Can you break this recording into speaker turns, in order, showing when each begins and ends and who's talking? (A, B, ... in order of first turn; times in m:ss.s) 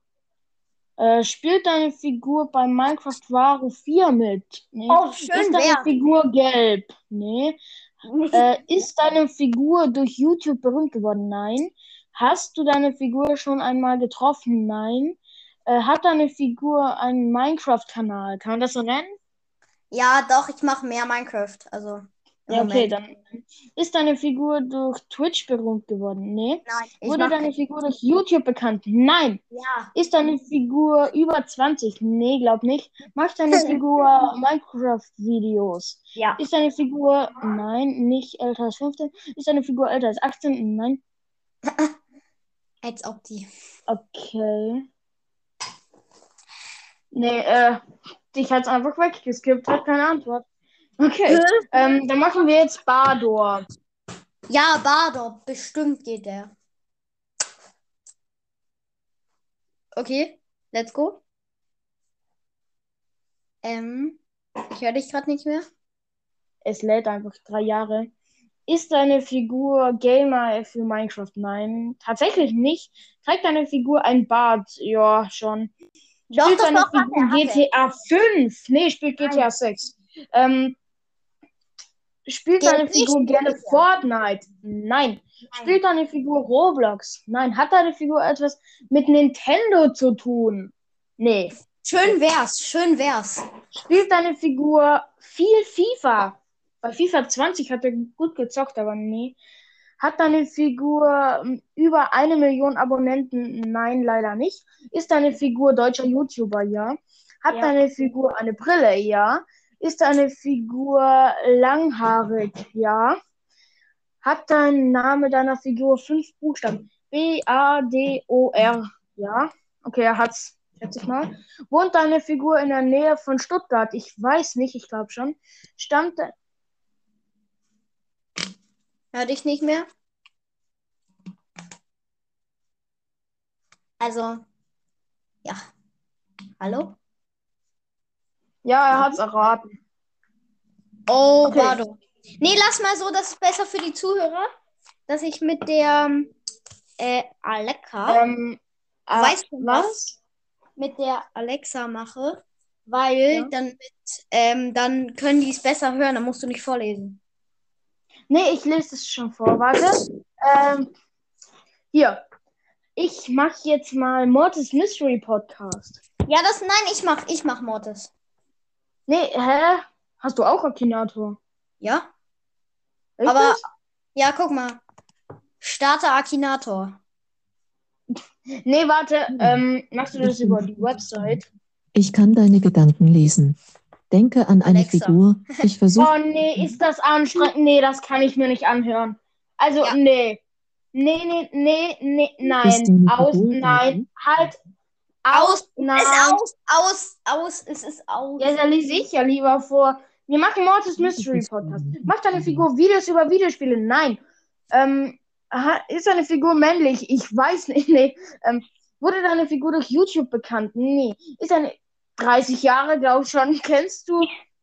0:01.0-0:07.6 A
0:04.9-0:05.9 B
0:08.1-0:08.4 B
0:08.3-0:19.2 A
0:19.9-0:22.9 B
0:22.5-0:29.4 A
0:26.7-0:27.4 B
0:29.5-0:29.9 B
0:30.0-0:41.0 A
0:42.8-0:43.5 B
0:43.9-0:44.8 A
0:47.1-0:47.8 A
0:48.3-0:50.4 A
0:51.0-0:53.7 A
0:51.3-0:51.7 B
0:54.5-0:56.5 B
1:00.0-1:01.2 B
1:03.6-1:04.2 B
1:04.7-1:05.6 B
1:06.6-1:08.1 A
1:08.7-1:15.7 A
1:16.3-1:17.6 B
1:16.4-1:20.8 A
1:19.2-1:19.5 B
1:22.3-1:31.5 A
1:22.6-1:23.8 B
1:25.5-1:25.8 B
1:31.8-1:33.4 B
1:33.7-1:39.4 A
1:40.0-1:53.2 A
1:47.5-1:47.8 B
1:54.2-2:06.3 A
2:09.1-2:09.9 B
2:14.0-2:14.4 B
2:16.6-2:17.0 B
2:18.6-2:19.7 A
2:21.1-2:24.5 B
2:21.4-2:21.8 A
2:25.1-2:26.3 B
2:27.0-2:28.2 B
2:28.1-2:30.2 A
2:29.1-2:30.0 B
2:30.8-2:37.2 B
2:38.3-2:40.9 A
2:41.9-2:42.2 A
2:43.0-2:46.0 A
2:46.3-2:48.1 B
2:49.1-2:51.4 A
2:51.8-2:52.1 B
2:53.2-2:53.6 A
2:53.3-2:53.6 B
2:54.2-2:54.8 B
2:55.6-2:57.0 B
2:58.2-3:01.4 A
2:59.3-2:59.6 C
3:00.2-3:01.4 C
3:02.0-3:03.6 C
3:04.1-3:06.8 C
3:04.6-3:05.3 B
3:06.0-3:10.4 A
3:10.9-3:14.6 A
3:12.6-3:14.1 C
3:15.2-3:16.4 A
3:15.3-3:18.5 B
3:18.4-3:24.2 A
3:21.0-3:22.7 C
3:24.7-3:34.3 A